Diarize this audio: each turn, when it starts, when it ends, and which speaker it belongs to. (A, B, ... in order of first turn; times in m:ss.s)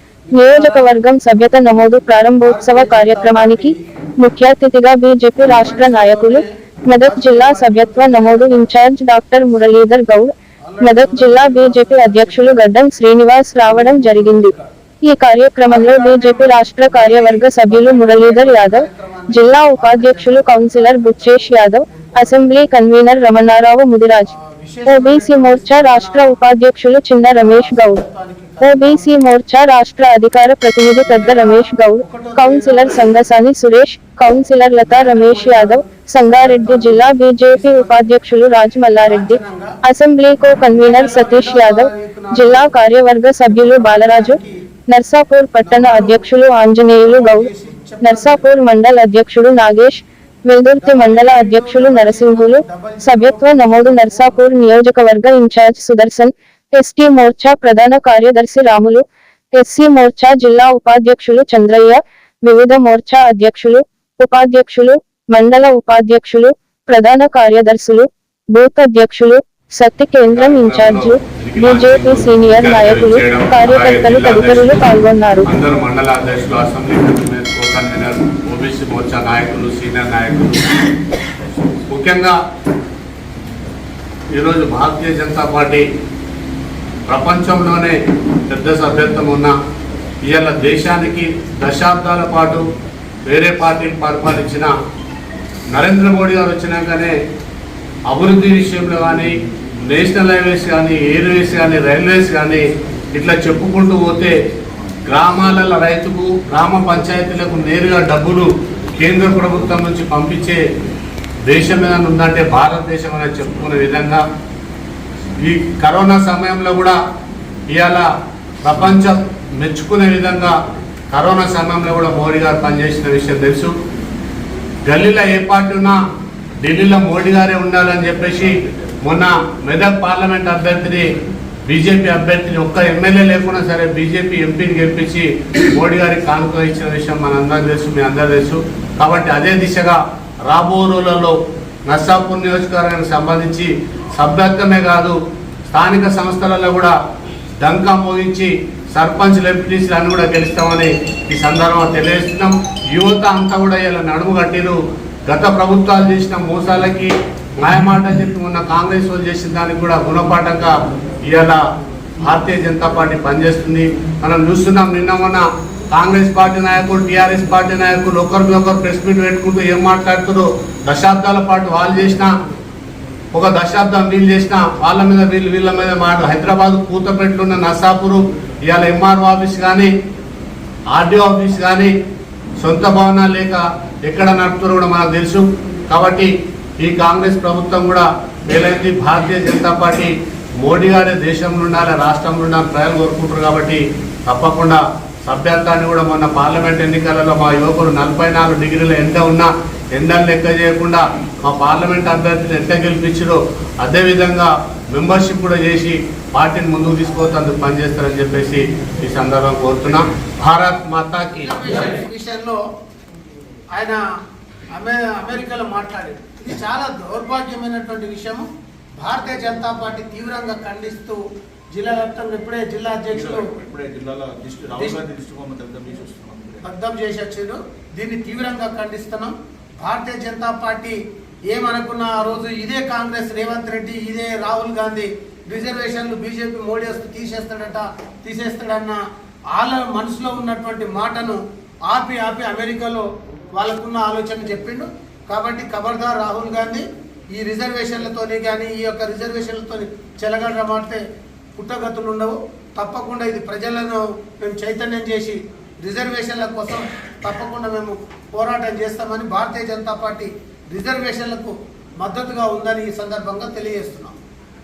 0:00.3-0:24.3 A
0:00.4-0:00.9 B
0:02.4-0:03.8 B
0:05.5-0:08.7 B
0:10.6-0:12.7 B
0:13.6-0:14.6 B
0:15.6-0:22.8 B
0:24.3-0:26.4 B
0:24.8-0:28.0 A
0:27.3-0:29.1 B
0:28.6-0:44.4 A
0:31.0-0:33.1 B
0:34.8-0:38.0 B
0:39.0-0:39.7 B
0:40.7-0:42.8 B
0:43.4-0:44.6 B
0:44.9-0:47.5 A
0:45.6-0:46.2 B
0:47.0-0:48.5 B
0:48.0-1:15.5 A
0:50.8-0:54.5 B
1:10.3-1:14.9 C
1:15.4-1:20.7 C
1:21.9-1:22.4 C
1:24.3-1:25.8 C
1:27.1-1:29.5 C
1:30.3-1:32.6 C
1:33.2-1:34.7 C
1:35.7-1:37.1 C
1:38.1-1:39.3 C
1:39.8-1:44.3 C
1:45.0-1:50.6 C
1:51.4-1:54.2 C
1:55.4-1:57.0 C
1:57.7-1:58.1 C
1:58.6-2:00.6 C
2:01.1-2:03.7 C
2:04.8-2:06.0 C
2:06.6-2:11.1 C
2:11.7-2:21.4 C
2:21.9-2:25.2 C
2:25.7-2:26.9 C
2:27.6-2:40.7 C
2:41.2-2:41.6 C
2:42.2-2:52.3 C
2:53.3-2:59.9 C
3:00.9-3:01.9 C
3:02.6-3:31.8 C
3:31.4-3:32.6 B
3:34.8-3:38.4 B
3:39.0-3:41.2 B
3:41.7-3:43.5 B
3:43.1-3:46.6 D
3:46.6-3:51.0 B
3:51.5-3:59.0 B
3:59.5-4:11.0 B
4:11.6-4:24.1 B